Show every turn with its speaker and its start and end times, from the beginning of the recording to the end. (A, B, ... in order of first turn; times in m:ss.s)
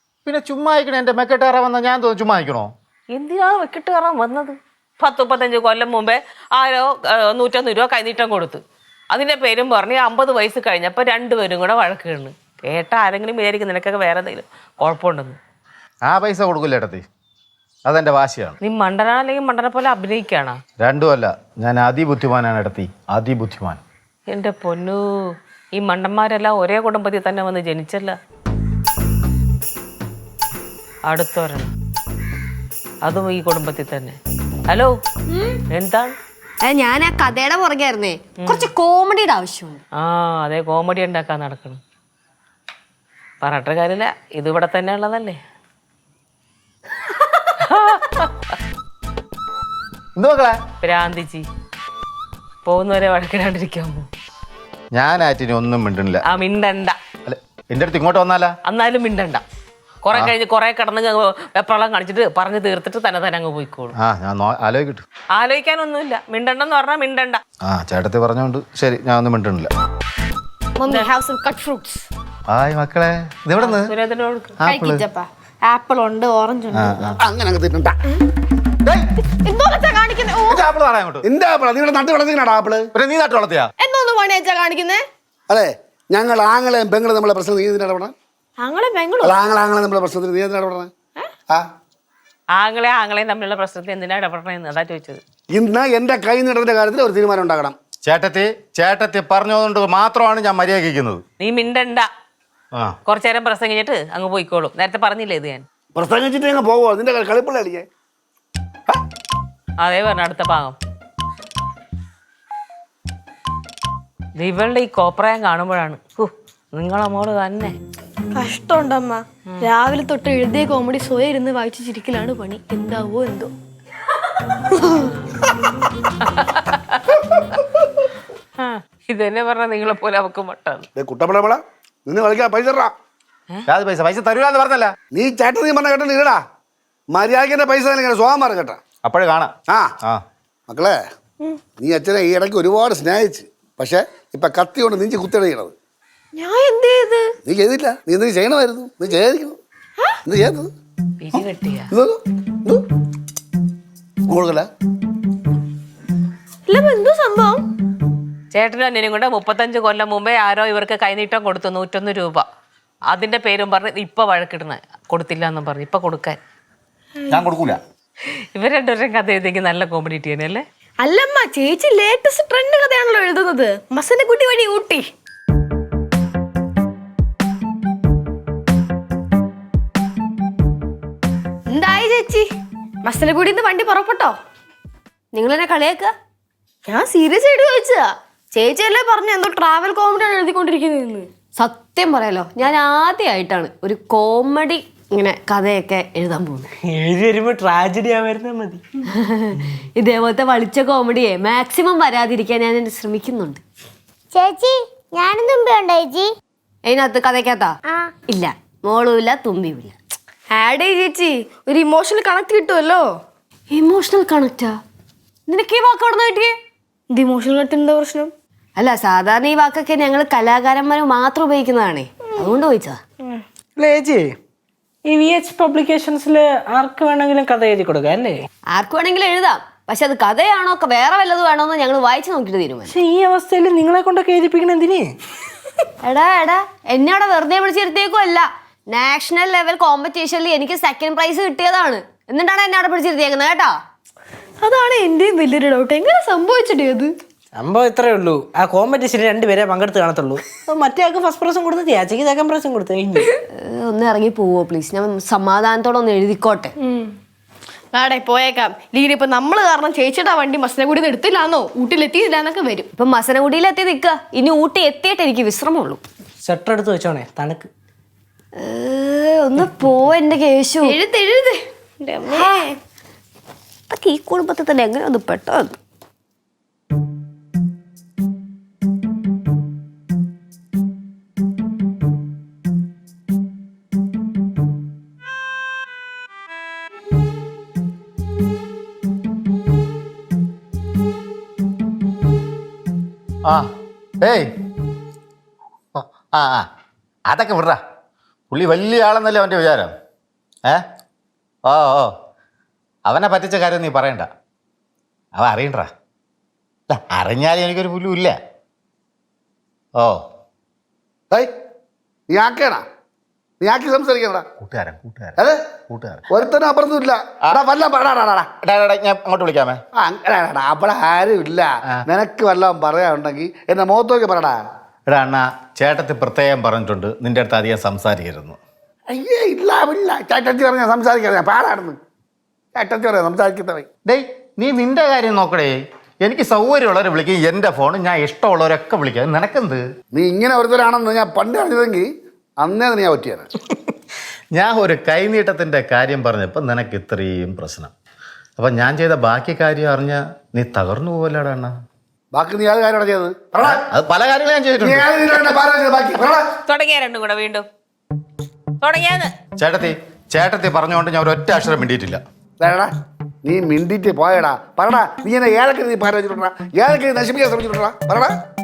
0:00.3-0:02.7 A
0:03.1-0:15.4 B
0:16.0-0:17.0 A
0:17.8-0:18.6 A
0:18.6-0:20.6 B
0:20.8-0:23.8 A
0:24.3-0:25.1 B
0:25.8-0:28.2 B
0:31.1-0:31.7 B
0:33.0-0:34.2 B
0:34.7-0:34.9 B
0:35.3-0:35.6 C
0:35.7-0:36.1 B
0:36.6-0:39.8 C
0:38.4-0:38.7 B
0:40.0-0:41.8 B
0:43.4-0:45.4 B
0:47.6-0:48.3 B
0:50.2-0:50.6 A
0:50.8-0:51.4 B
0:52.6-0:54.0 B
0:54.9-0:56.2 A
0:56.3-0:57.0 B
0:57.3-0:58.5 A
0:58.6-0:59.4 B
1:00.0-1:03.9 B
1:04.0-1:05.0 A
1:05.4-1:07.4 B
1:07.6-1:09.7 A
1:10.8-1:12.1 D
1:12.5-1:13.9 A
1:13.6-1:14.6 B
1:14.6-1:15.1 A
1:14.6-1:17.0 D
1:16.7-1:17.2 A
1:17.1-1:18.0 E
1:18.8-1:19.1 A
1:19.3-1:20.6 D
1:20.4-1:21.3 A
1:21.2-1:22.9 E
1:23.0-1:23.7 A
1:23.8-1:25.0 D
1:25.5-1:28.1 E
1:28.6-1:29.4 D
1:29.2-1:30.9 E
1:32.6-1:35.2 B
1:35.5-1:37.8 E
1:38.0-1:41.2 A
1:41.4-1:42.1 B
1:43.1-1:45.6 B
1:46.0-1:47.9 E
1:49.8-1:50.8 B
1:54.4-1:57.8 B
1:58.4-2:03.5 D
2:04.8-2:05.0 D
2:06.2-2:07.6 B
2:08.6-2:10.9 B
2:11.0-2:12.9 E
2:13.7-2:15.0 A
2:15.1-2:16.4 E
2:17.1-2:18.8 E
2:19.0-2:20.2 A
2:19.7-2:19.9 E
2:20.7-2:21.0 E
2:21.8-2:25.7 E
2:26.4-2:27.3 D
2:27.4-2:29.6 E
2:30.2-2:30.7 E
2:31.2-2:31.9 B
2:31.3-2:32.8 E
2:34.3-2:34.7 E
2:36.7-2:37.6 D
2:38.5-2:42.5 B
2:43.1-2:46.4 B
2:47.3-2:47.8 A
2:48.5-2:50.6 B
2:51.0-2:55.1 D
3:01.7-3:02.4 D
3:03.0-3:04.4 D
3:05.3-3:06.1 C
3:06.9-3:11.3 D
3:11.6-3:16.7 C
3:16.8-3:18.8 F
3:19.1-3:23.6 C
3:24.3-3:26.3 G
3:26.8-3:27.7 C
3:28.3-3:30.0 C
3:30.5-3:33.1 D
3:33.7-3:34.8 C
3:35.5-3:36.5 C
3:37.1-3:38.3 D
3:38.8-3:43.0 C
3:43.8-3:44.4 F
3:45.1-3:48.4 F
3:48.7-3:53.0 C
3:52.9-3:55.1 F
3:56.0-4:03.8 C
4:04.6-4:07.1 D
4:07.6-4:13.3 F
4:13.5-4:16.7 C
4:16.8-4:17.1 D
4:17.9-4:22.9 D
4:23.0-4:26.0 C
4:26.4-4:27.7 F
4:28.6-4:31.0 C
4:30.8-4:32.7 D
4:32.3-4:32.7 C
4:33.9-4:35.8 C
4:54.2-4:54.5 A
4:56.0-4:56.7 A
4:57.3-4:57.8 A
4:58.5-4:59.9 A
5:01.7-5:02.1 A
5:03.1-5:04.3 A
5:05.4-5:05.9 A
5:06.9-5:08.4 A
5:12.3-5:12.8 E
5:13.6-5:14.5 E
5:14.6-5:15.4 A
5:15.9-5:16.3 A
5:16.3-5:18.5 E
5:18.6-5:19.8 A
5:20.0-5:24.6 E
5:25.1-5:28.6 A
5:29.1-5:32.0 E
5:32.8-5:33.9 E
5:34.0-5:39.8 A
5:40.1-5:42.1 E
5:42.6-5:43.5 E
5:44.5-5:47.9 A
5:48.6-5:51.7 A
5:52.3-5:53.8 E
5:53.6-5:55.1 A
5:54.8-5:56.4 E
5:56.7-5:57.7 B
5:58.8-5:59.3 B
5:59.6-6:02.2 A
6:02.6-6:02.9 E
6:03.4-6:08.3 E